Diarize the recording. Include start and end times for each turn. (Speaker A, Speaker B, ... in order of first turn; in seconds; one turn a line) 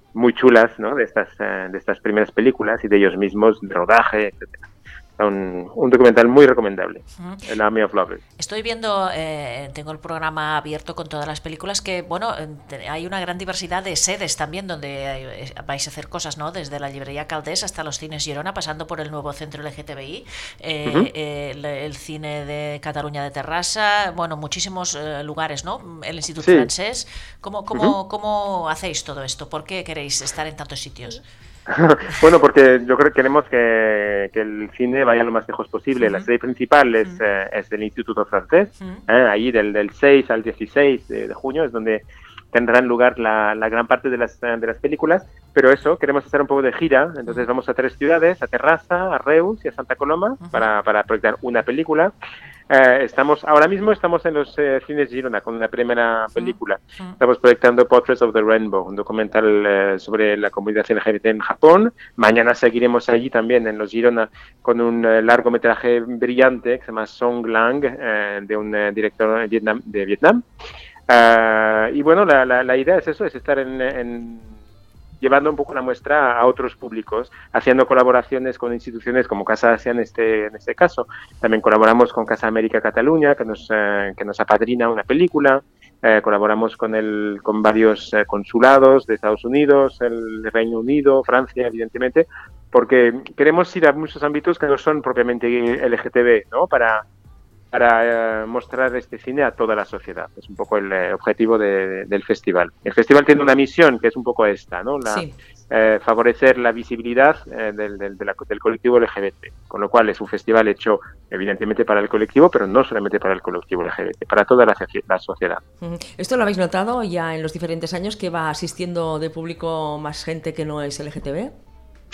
Speaker A: 0.1-8.2
Speaker B: 7.2-7.4
Speaker B: 8.4-31.2
Speaker A: 26.4-26.7
Speaker A: 31.7-52.1
Speaker B: 36.0-36.3
Speaker B: 50.4-50.7
Speaker A: 52.7-70.4
Speaker B: 56.4-57.2
Speaker A: 71.1-74.5
Speaker A: 75.2-97.0
Speaker A: 97.7-115.6
Speaker C: 105.0-105.3
Speaker C: 115.8-121.5